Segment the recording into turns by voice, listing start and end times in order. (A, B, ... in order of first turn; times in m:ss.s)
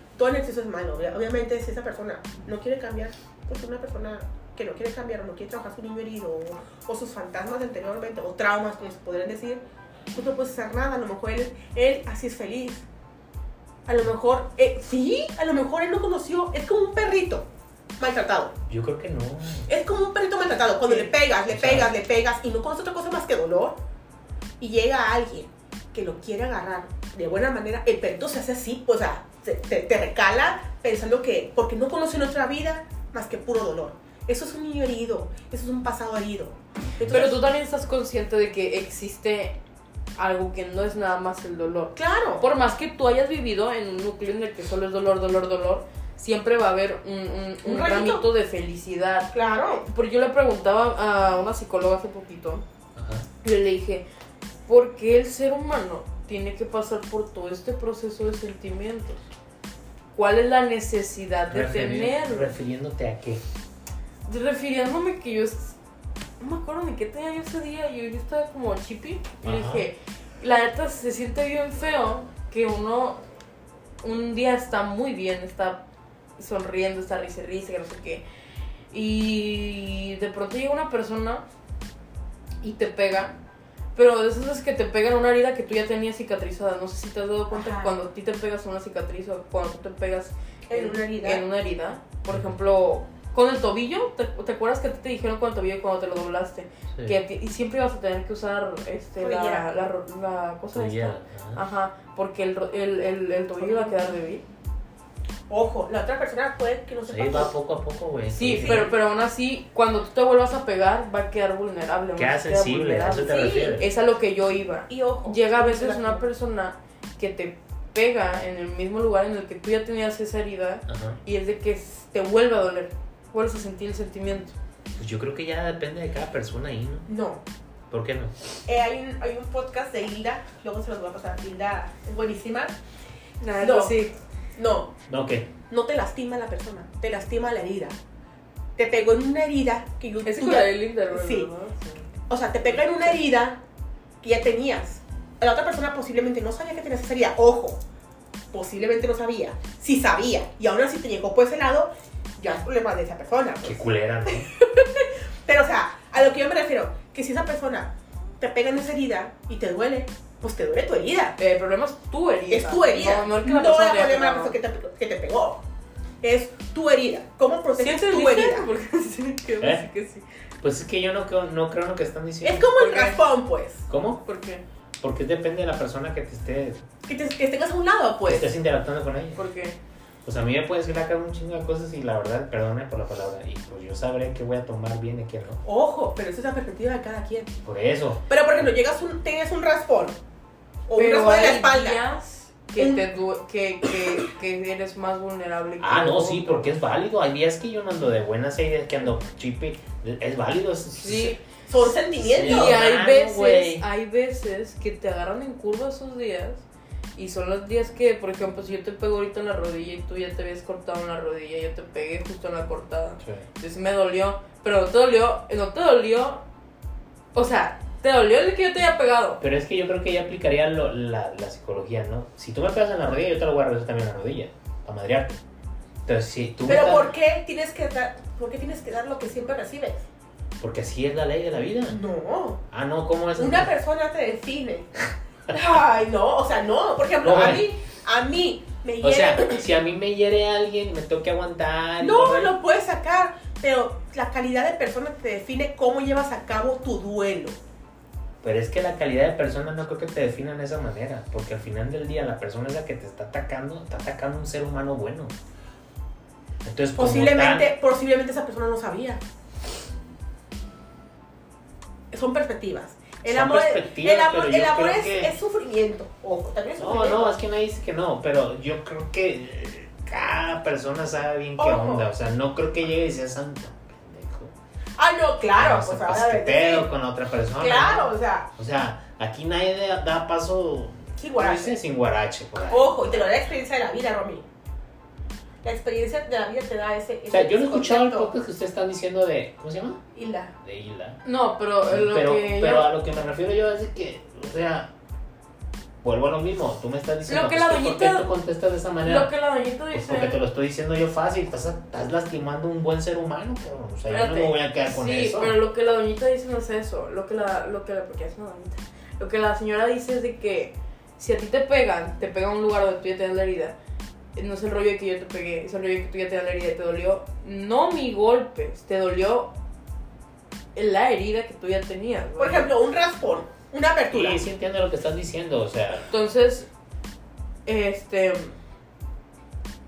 0:00.2-0:12.8 A
0:13.8-0:17.5 A
0:18.0-0:18.5 A
0:18.7-0:19.7 B
0:19.7-0:23.8 A
0:21.5-0:21.9 B
0:24.6-0:37.4 A
0:37.0-0:39.6 C
0:40.2-0:52.6 C
0:42.0-0:42.4 A
0:47.6-0:48.2 A
0:49.3-0:49.8 A
0:53.0-0:53.3 B
0:53.4-0:54.0 C
0:54.6-0:59.2 C
1:00.1-1:02.5 C
1:01.5-1:03.4 B
1:04.3-1:05.8 C
1:06.4-1:13.2 C
1:09.4-1:09.9 B
1:14.0-1:15.8 C
1:16.4-1:18.2 C
1:18.9-1:21.4 C
1:22.6-1:23.4 C
1:23.9-1:44.4 C
1:27.5-1:28.0 A
1:30.7-1:31.4 A
1:39.2-1:39.6 A
1:40.7-1:41.6 B
1:43.6-1:44.1 A
1:45.5-1:47.5 A
1:47.1-1:48.9 B
1:48.3-2:04.5 C
1:48.6-1:48.9 A
1:52.2-1:53.9 B
1:53.2-1:53.8 A
1:54.9-1:56.2 A
2:00.9-2:01.2 B
2:05.0-2:07.1 B
2:07.1-2:07.4 A
2:07.9-2:08.3 B
2:08.6-2:12.8 A
2:13.4-2:14.1 C
2:13.6-2:14.0 A
2:14.6-2:14.9 A
2:15.1-2:15.5 B
2:15.7-2:18.0 A
2:18.8-2:21.5 A
2:20.2-2:23.2 C
2:22.3-2:23.6 A
2:24.2-2:27.8 A
2:28.5-2:41.4 A
2:33.6-2:34.5 B
2:41.4-2:44.5 C
2:42.5-2:45.6 A
2:46.2-2:48.7 A
2:47.8-2:50.2 C
2:50.6-2:52.7 B
2:52.4-2:53.9 A
2:52.7-2:53.2 C
2:53.9-2:54.2 B
2:54.2-2:54.6 C
2:55.0-2:56.8 B
2:57.0-2:58.5 A
2:58.3-2:59.4 B
2:59.4-2:59.8 C
3:00.2-3:05.6 B
3:05.6-3:07.5 A
3:07.6-3:08.3 B
3:08.3-3:10.2 A
3:10.9-3:12.0 A
3:11.0-3:16.8 C
3:12.8-3:13.0 A
3:15.8-3:21.4 B
3:21.0-3:21.4 C
3:21.7-3:22.8 A
3:22.1-3:23.8 B
3:22.4-3:26.6 C
3:27.2-3:36.4 C
3:37.3-3:39.4 C
3:39.4-3:45.4 B
3:46.0-3:47.1 B
3:46.7-3:50.0 A
3:50.6-3:52.0 B
3:51.9-3:52.6 A
3:52.7-3:53.7 B
3:53.4-3:54.9 A
3:55.5-3:59.6 A
3:57.2-3:57.7 B
3:59.0-4:02.5 B
4:02.0-4:07.6 A
4:08.4-4:15.3 B
4:16.6-4:17.7 B
4:17.0-4:19.2 A
4:22.1-4:27.3 A
4:23.2-4:25.3 B
4:26.8-4:34.5 B
4:31.6-4:32.1 A
4:35.0-4:36.9 A
4:35.6-4:43.5 B
4:37.6-4:38.5 A
4:41.2-4:41.7 A
4:42.7-4:44.4 A
4:45.6-4:48.3 A
4:47.3-4:50.0 B
4:50.1-4:50.5 A
4:50.6-4:51.2 B
4:51.2-4:52.9 C
4:51.9-4:54.9 B
4:56.0-4:59.3 B
4:57.3-4:58.3 C
4:59.0-5:00.4 C
4:59.9-5:05.6 B
5:04.1-5:13.8 C
5:14.4-5:19.5 C
5:20.7-5:22.7 C
5:22.4-5:24.4 A
5:24.1-5:26.1 B
5:26.1-5:26.7 C
5:27.6-5:28.6 C